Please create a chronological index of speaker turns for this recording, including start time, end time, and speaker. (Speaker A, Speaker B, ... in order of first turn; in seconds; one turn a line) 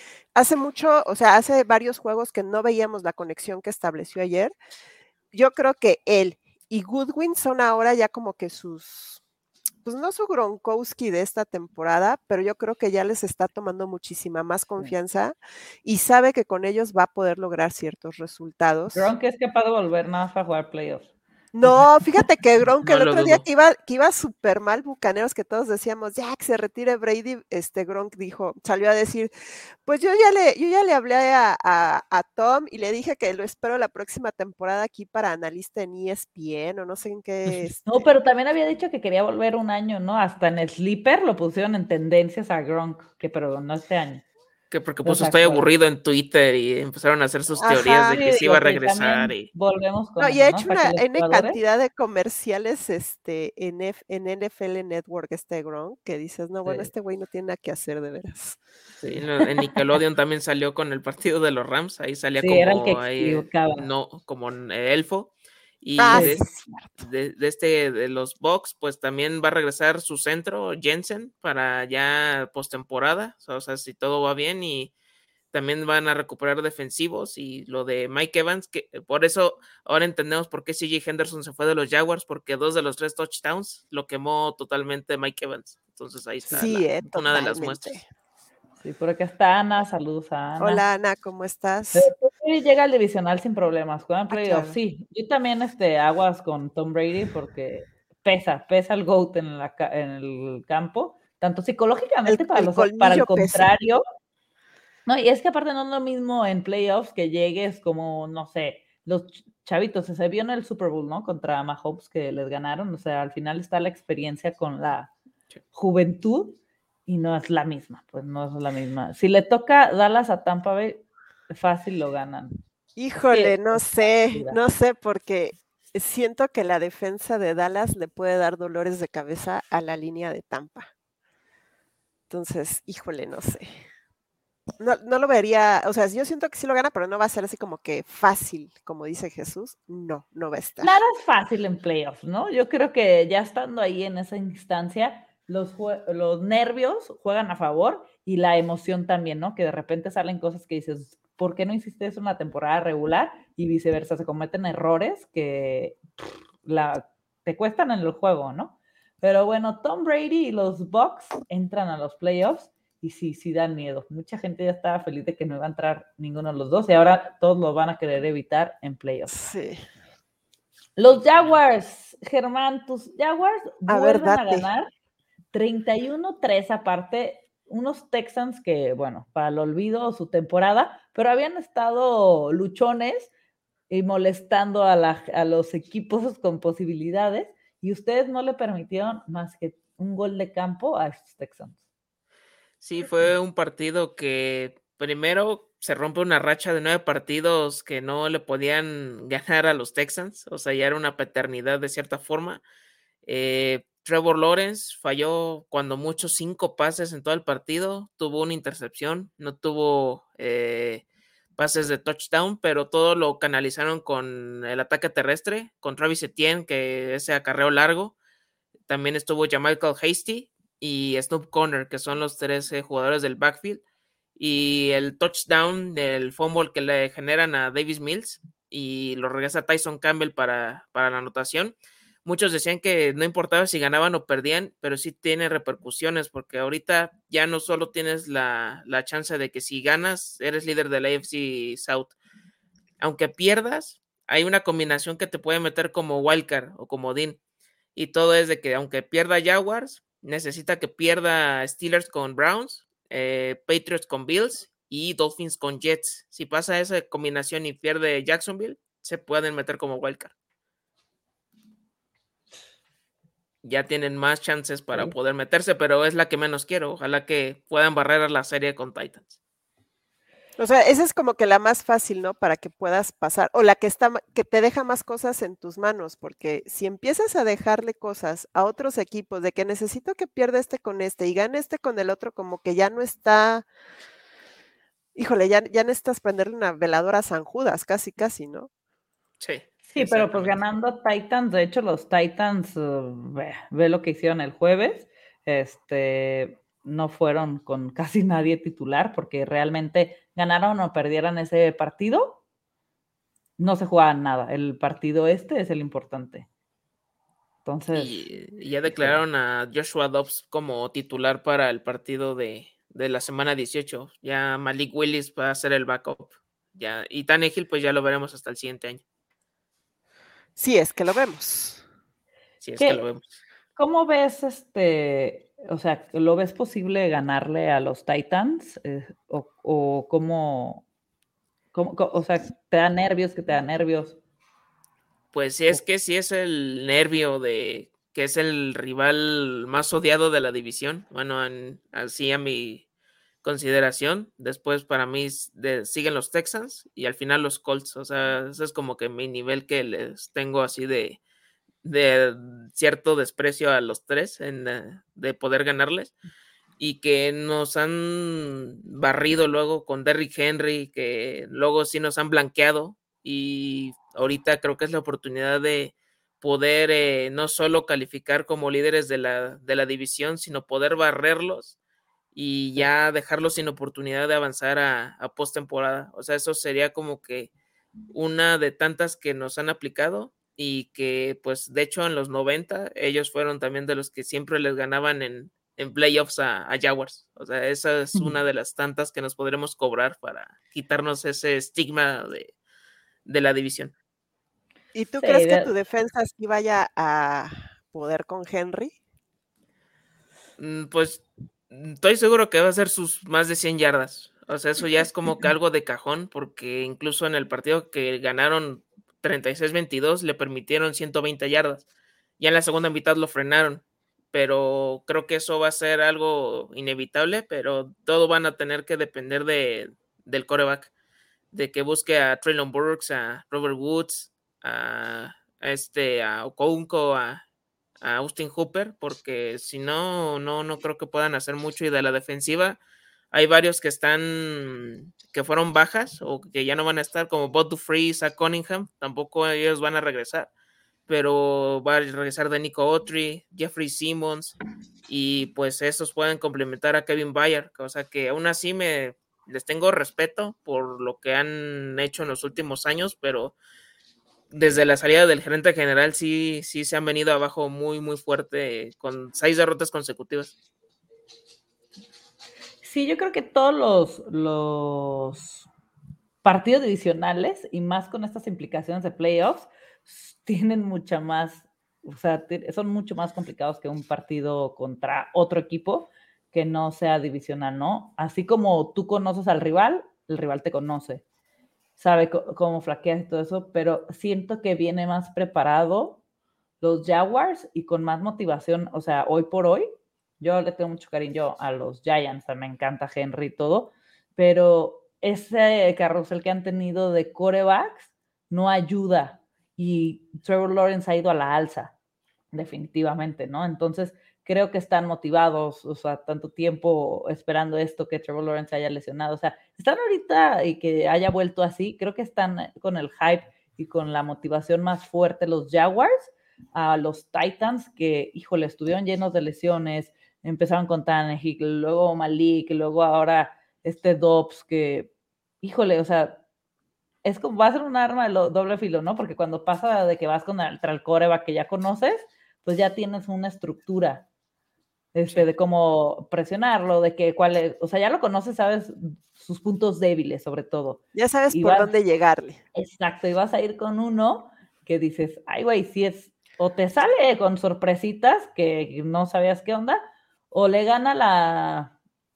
Speaker A: 0.3-4.5
Speaker A: 5.3-9.2
Speaker A: 9.8-19.1
Speaker B: 18.9-21.1
Speaker A: 21.5-29.3
Speaker C: 22.8-23.4
Speaker A: 29.8-38.1
Speaker B: 37.5-44.2
Speaker C: 44.7-49.5
Speaker B: 45.0-45.7
Speaker A: 47.6-48.2
Speaker B: 48.1-51.6
Speaker A: 50.2-58.6
Speaker B: 56.6-56.9
Speaker B: 59.0-59.8
Speaker C: 59.2-66.5
Speaker B: 62.4-63.9
Speaker A: 66.0-66.8
Speaker B: 66.1-66.5
Speaker C: 67.0-74.9
Speaker C: 75.5-88.0
Speaker A: 86.5-88.0
Speaker B: 88.8-90.8
Speaker A: 90.6-92.1
Speaker B: 91.9-104.0
Speaker A: 94.3-94.8
Speaker A: 102.2-103.7
Speaker B: 105.0-115.1
Speaker B: 115.7-122.5
Speaker A: 123.0-130.9
Speaker B: 123.3-124.6
Speaker A: 132.3-133.8
Speaker A: 134.8-140.9
Speaker B: 140.8-156.0
Speaker B: 156.6-169.4
Speaker A: 169.3-169.8
Speaker B: 171.0-174.9
Speaker A: 173.9-174.7
Speaker B: 175.5-183.3
Speaker B: 183.9-191.8
Speaker C: 192.8-202.6
Speaker C: 203.2-211.0
Speaker C: 211.6-218.2
Speaker C: 218.9-223.8
Speaker C: 224.4-242.1
Speaker C: 243.0-247.4
Speaker C: 247.9-260.3
Speaker C: 263.6-269.3
Speaker A: 270.6-283.6
Speaker A: 285.1-288.7
Speaker C: 289.4-290.6
Speaker B: 289.9-302.4
Speaker B: 303.6-306.5
Speaker B: 307.6-308.2
Speaker C: 307.9-319.0
Speaker B: 308.8-309.2
Speaker A: 320.6-321.8
Speaker C: 322.6-323.3
Speaker B: 322.8-323.0
Speaker B: 323.8-330.8
Speaker B: 331.7-334.2
Speaker C: 335.3-342.8
Speaker C: 343.4-351.2
Speaker C: 351.8-356.1
Speaker C: 356.8-371.8
Speaker C: 372.3-377.5
Speaker C: 378.1-392.5
Speaker C: 393.2-393.9
Speaker A: 394.9-398.9
Speaker B: 395.2-395.7
Speaker C: 400.6-411.9
Speaker C: 412.4-420.9
Speaker C: 421.5-427.4
Speaker C: 428.0-432.8
Speaker C: 433.3-440.5
Speaker C: 441.1-453.5
Speaker C: 454.5-460.5
Speaker B: 462.8-465.7
Speaker B: 466.4-481.2
Speaker B: 482.0-486.2
Speaker B: 486.8-489.9
Speaker B: 490.4-501.9
Speaker B: 502.5-526.4
Speaker B: 527.2-534.3
Speaker B: 535.1-541.9
Speaker A: 541.1-542.6
Speaker B: 542.7-551.9